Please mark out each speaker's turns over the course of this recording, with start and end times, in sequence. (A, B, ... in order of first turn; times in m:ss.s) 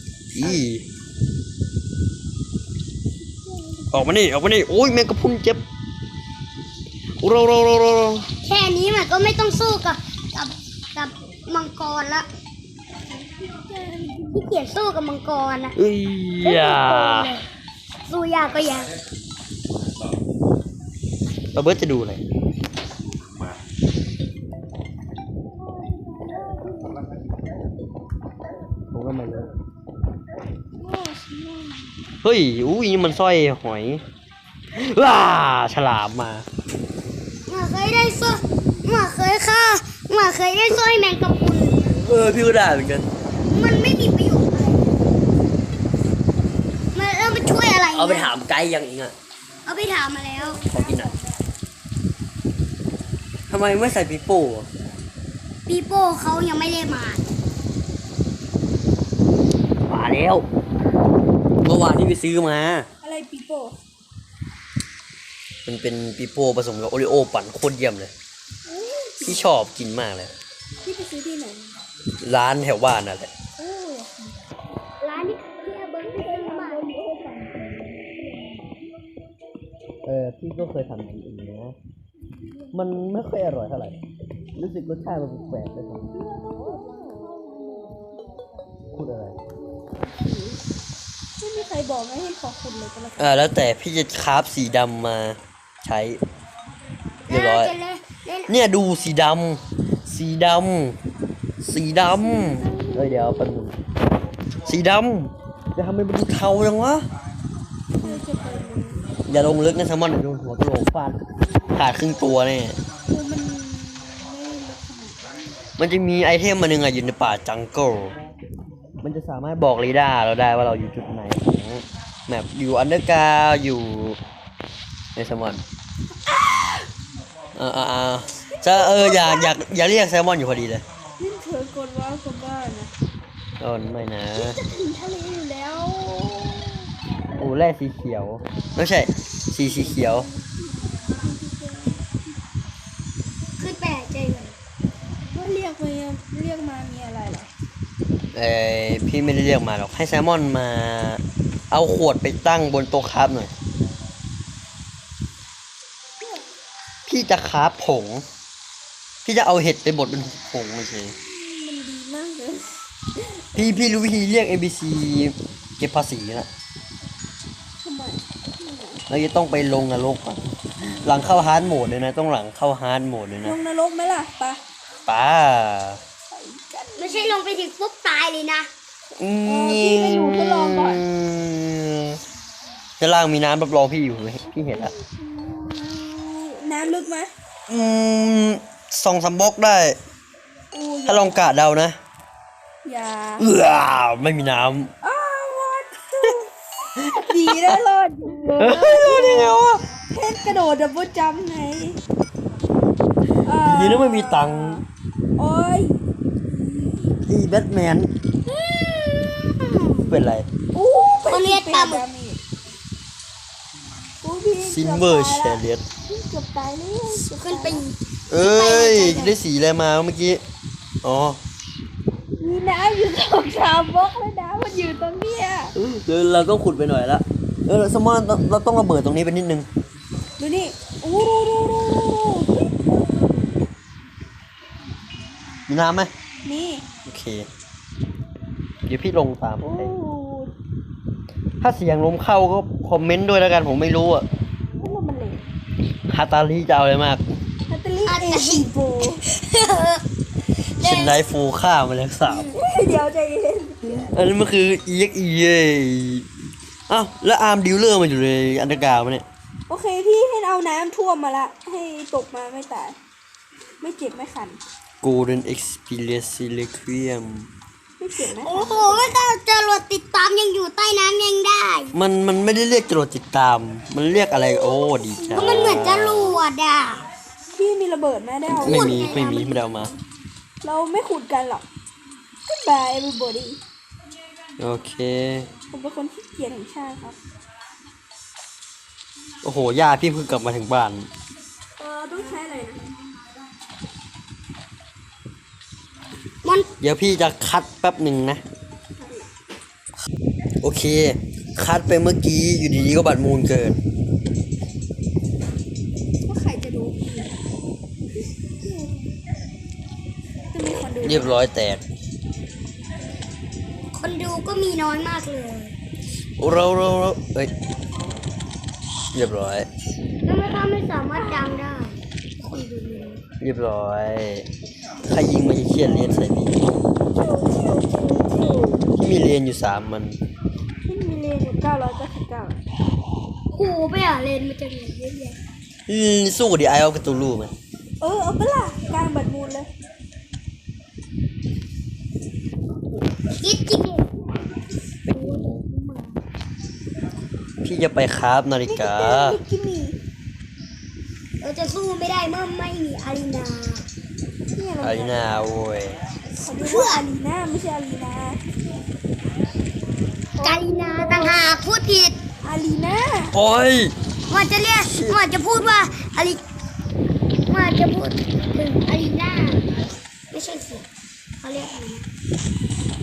0:00.3-0:00.8 A
0:03.4-0:04.1 B
0:03.9-0:05.6 A
0:07.2-0:08.3 A
0:08.4-0:12.3 C
0:13.1-0:14.5 B
0:14.3-0:15.8 C
0:15.8-0:17.4 A
0:16.4-0:17.4 C
0:18.0-0:18.9 C
0:21.6-0:22.2 A
0:25.6-0:27.1 B
0:28.9-0:29.5 A
0:30.8-0:31.9 B
0:32.2-0:34.0 A
0:34.7-0:36.4 A
0:37.5-0:41.9 C
0:41.9-0:43.0 A
0:43.4-0:45.0 C
0:46.9-0:48.3 C
0:47.9-0:49.1 A
0:49.6-0:50.6 C
0:50.4-0:51.4 B
0:50.7-0:51.1 A
0:53.5-0:54.7 A
0:55.7-0:57.2 C
0:59.9-1:00.4 A
1:01.6-1:02.9 A
1:03.0-1:03.8 B
1:05.6-1:08.1 A
1:08.6-1:09.4 B
1:09.2-1:10.3 A
1:10.8-1:11.8 B
1:12.2-1:13.3 A
1:13.6-1:14.5 B
1:15.0-1:16.9 C
1:16.1-1:18.8 B
1:20.0-1:21.8 A
1:22.7-1:24.0 A
1:24.6-1:26.2 A
1:26.1-1:28.6 B
1:28.9-1:29.4 A
1:29.9-1:30.6 B
1:31.4-1:33.3 B
1:33.2-1:36.2 A
1:37.3-1:38.5 C
1:37.3-1:37.7 A
1:38.5-1:41.0 A
1:41.6-1:43.8 A
1:42.0-1:43.6 B
1:44.6-1:47.0 A
1:48.0-1:49.0 B
1:49.3-1:52.8 A
1:53.1-1:55.3 B
1:55.8-1:58.1 A
1:59.0-2:04.2 A
2:05.2-2:05.6 A
2:06.2-2:06.9 B
2:07.6-2:10.8 A
2:08.5-2:09.5 B
2:11.2-2:12.9 B
2:13.6-2:14.6 A
2:14.4-2:16.9 B
2:17.4-2:20.3 A
2:19.7-2:22.0 B
2:23.6-2:24.6 C
2:25.3-2:27.5 B
2:28.3-2:33.5 A
2:36.2-2:36.5 B
2:37.1-2:38.2 A
2:39.2-2:41.1 A
2:41.3-2:43.8 B
2:43.5-2:46.5 A
2:47.8-2:49.0 B
2:49.1-2:53.6 A
2:53.4-2:54.6 B
2:55.1-2:56.0 A
2:56.3-2:57.4 B
2:57.0-2:58.7 C
2:59.2-3:02.2 A
2:59.4-3:01.0 B
3:03.0-3:04.9 A
3:04.5-3:07.3 B
3:07.7-3:10.0 A
3:10.7-3:11.3 B
3:11.0-3:12.0 A
3:12.8-3:13.5 B
3:13.4-3:14.9 A
3:15.0-3:22.0 B
3:17.0-3:17.8 A
3:18.6-3:19.8 A
3:23.4-3:24.8 B
3:23.6-3:24.8 A
3:25.4-3:26.0 B
3:26.5-3:27.1 B
3:27.2-3:28.1 A
3:28.5-3:30.3 C
3:30.0-3:30.5 A
3:30.7-3:32.4 B
3:31.2-3:32.0 C
3:34.2-3:37.8 B
3:34.6-3:35.8 A
3:37.2-3:39.4 C
3:38.3-3:40.4 A
3:41.0-3:41.4 A
3:42.4-3:45.7 B
3:45.8-3:49.7 A
3:50.4-3:53.3 B
3:55.7-3:56.1 A
3:56.4-3:56.8 B
3:57.0-3:57.5 A
3:58.9-3:59.9 A
3:59.6-4:00.5 B
4:01.6-4:04.3 A
4:04.8-4:05.4 B
4:06.1-4:07.2 A
4:07.7-4:09.2 B
4:08.0-4:08.7 C
4:09.3-4:10.0 C
4:10.8-4:11.2 C
4:10.8-4:12.5 A
4:12.2-4:14.2 B
4:14.1-4:16.3 A
4:16.9-4:19.2 A
4:19.7-4:23.0 B
4:23.8-4:24.6 B
4:25.0-4:27.5 A
4:28.0-4:29.1 B
4:28.3-4:31.9 C
4:31.9-4:36.4 A
4:34.5-4:35.9 B
4:35.3-4:37.0 C
4:37.5-4:39.2 B
4:38.5-4:40.0 A
4:38.6-4:39.7 C
4:40.6-4:41.6 B
4:42.5-4:43.6 B
4:44.6-4:45.5 A
4:45.7-4:47.2 B
4:49.4-4:51.1 A
4:51.8-4:52.9 B
4:56.8-4:58.4 A
4:59.0-4:59.3 B
5:00.6-5:03.8 A
5:06.2-5:07.4 B
5:08.6-5:09.1 B
5:10.5-5:11.4 B
5:11.0-5:11.8 A
5:13.9-5:15.8 C
5:16.4-5:17.5 A
5:19.1-5:19.7 A
5:20.2-5:23.2 C
5:21.1-5:21.6 B
5:23.4-5:24.5 A
5:25.0-5:26.7 A
5:27.2-5:28.9 B
5:27.5-5:28.7 C
5:29.0-5:30.2 A
5:30.9-5:32.6 B
5:33.5-5:35.4 C
5:35.9-5:37.5 A
5:38.0-5:39.7 B
5:43.3-5:44.1 C
5:45.1-5:45.6 A
5:45.1-5:46.1 C
5:47.6-5:49.4 A
5:48.6-5:50.0 B
5:51.4-5:53.9 C
5:54.5-5:55.4 B
5:54.8-5:56.0 A
5:56.4-5:58.4 B
5:56.5-5:57.0 C
6:00.4-6:01.5 B
6:00.4-6:02.2 C
6:02.4-6:03.4 B
6:03.3-6:03.9 A
6:04.3-6:06.4 C
6:04.8-6:05.2 A
6:07.5-6:09.7 C
6:10.3-6:10.9 C
6:11.4-6:12.0 C